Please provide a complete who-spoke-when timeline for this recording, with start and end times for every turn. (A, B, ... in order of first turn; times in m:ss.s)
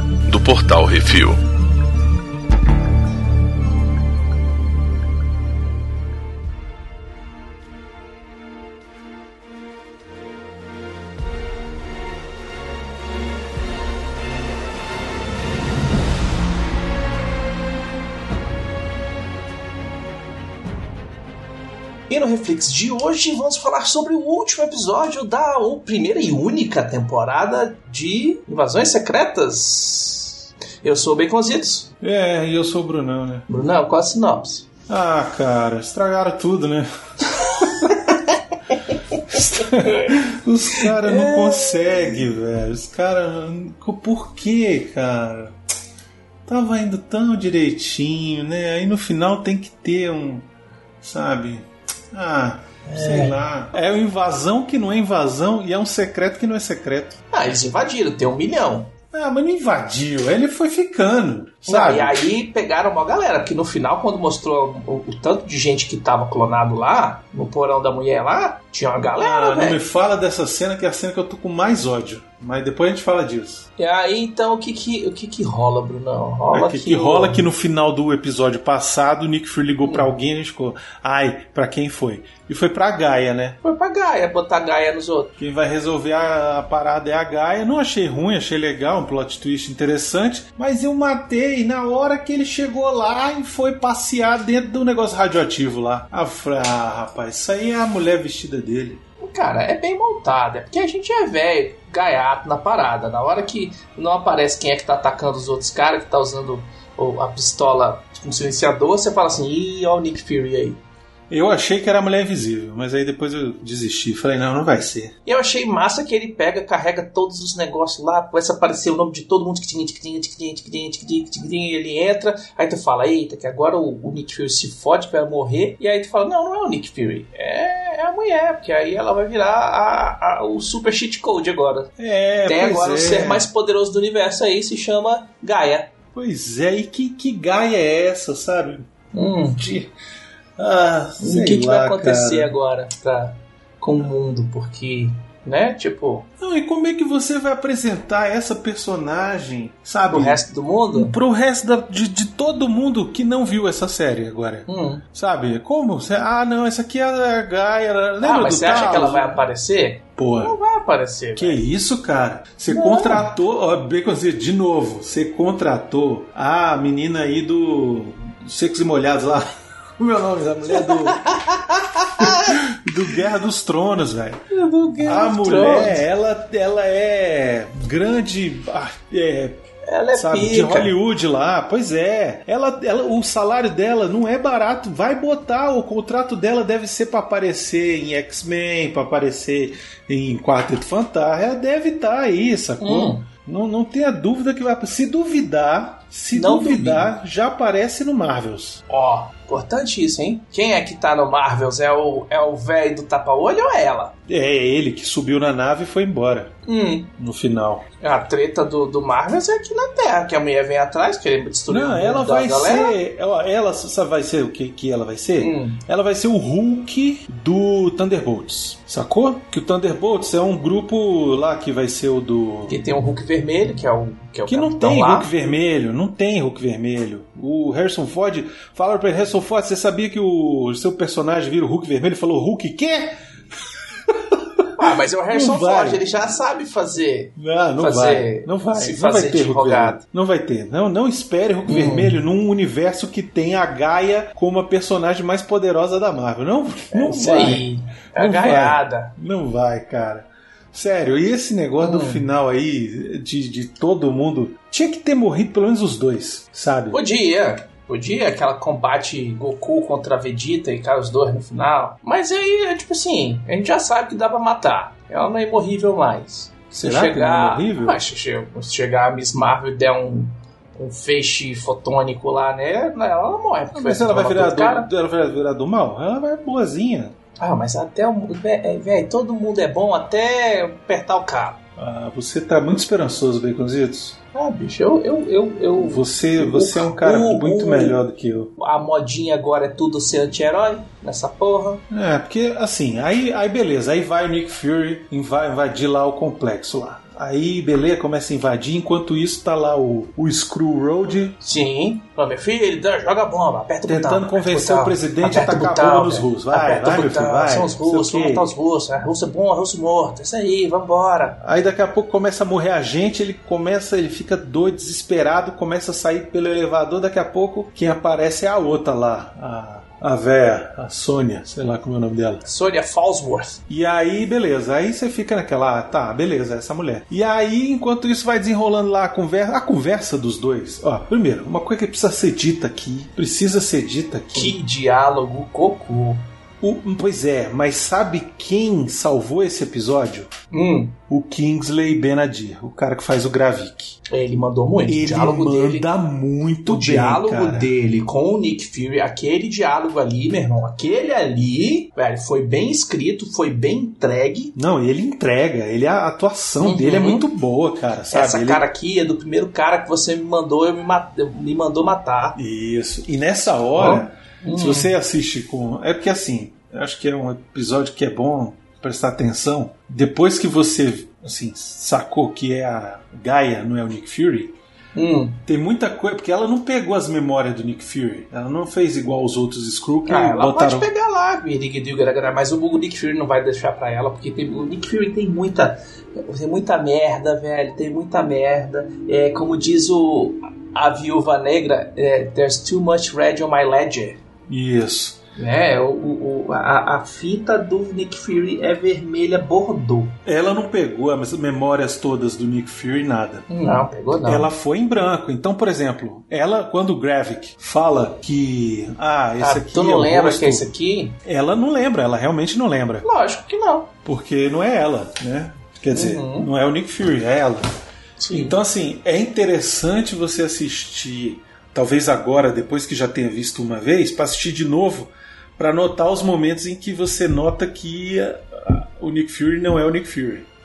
0:00.3-0:01.4 A
0:22.1-0:31.9 B
0:32.0-0:33.5 A
0:33.5-0:34.7 B
0:34.9-0:38.2 A
0:37.6-0:38.0 B
0:38.8-0:40.2 B
0:39.3-0:45.6 A
0:40.7-0:42.2 B
0:46.5-0:50.5 A
0:51.0-0:57.2 A
0:52.9-0:53.4 B
0:57.3-0:58.9 B
0:59.1-1:02.2 A
1:01.7-1:09.8 B
1:09.2-1:13.7 A
1:13.8-1:17.4 B
1:16.5-1:23.6 A
1:19.8-1:20.1 B
1:23.6-1:25.3 B
1:25.4-1:39.0 A
1:39.2-1:50.8 B
1:51.3-1:55.1 A
1:55.3-2:11.9 B
2:12.0-2:13.5 A
2:12.5-2:15.9 B
2:16.2-2:18.9 A
2:19.1-2:19.6 B
2:19.6-2:19.9 A
2:20.6-2:22.5 A
2:21.2-2:26.3 B
2:26.4-2:30.4 A
2:30.1-2:31.2 B
2:30.9-2:39.4 A
2:34.7-2:35.0 B
2:38.2-2:41.6 B
2:40.2-2:40.5 A
2:41.4-2:49.5 A
2:42.7-2:43.3 B
2:50.0-2:51.2 A
2:50.7-2:52.6 B
2:52.2-2:54.4 A
2:54.5-2:56.0 B
2:55.0-2:59.6 A
2:59.9-3:00.9 B
3:00.1-3:18.8 A
3:12.8-3:13.3 B
3:16.3-3:17.1 B
3:18.9-3:24.1 B
3:24.3-3:26.6 A
3:26.7-3:27.1 B
3:27.2-3:27.9 A
3:28.0-3:32.9 B
3:31.7-3:42.8 A
3:35.4-3:35.8 B
3:42.7-3:45.3 B
3:44.5-3:53.2 A
3:54.1-3:54.6 A
3:54.8-4:00.0 B
3:55.3-3:56.0 A
3:57.4-4:17.0 A
4:01.7-4:02.2 B
4:06.9-4:09.1 B
4:11.8-4:12.2 B
4:16.9-4:34.9 B
4:26.8-4:28.0 A
4:33.7-4:37.2 A
4:37.4-4:41.6 B
4:41.8-4:44.2 A
4:44.3-4:48.0 B
4:45.8-4:48.5 A
4:48.6-4:51.8 B
4:51.9-5:01.4 A
5:01.4-5:11.4 B
5:03.9-5:08.5 A
5:11.4-5:22.4 A
5:22.4-5:23.6 B
5:23.7-5:34.6 A
5:34.3-5:36.2 B
5:36.6-5:40.3 A
5:40.5-5:41.0 B
5:41.1-5:44.0 A
5:44.1-5:45.9 B
5:44.9-5:47.7 A
5:46.7-5:54.5 B
5:54.6-5:58.6 A
5:56.6-5:57.3 B
5:58.1-6:02.4 B
6:02.4-6:14.6 A
6:03.8-6:04.9 B
6:15.0-6:15.4 B
6:15.5-6:20.9 A
6:20.1-6:34.2 B
6:34.5-6:35.2 A
6:35.4-6:40.2 B
6:40.2-6:50.7 A
6:43.5-6:44.5 B
6:49.4-6:51.2 B
6:51.2-6:53.0 A
6:53.0-6:53.9 B
6:54.0-6:57.6 A
6:55.9-6:56.5 B
6:58.2-6:58.6 B
6:58.3-7:10.5 A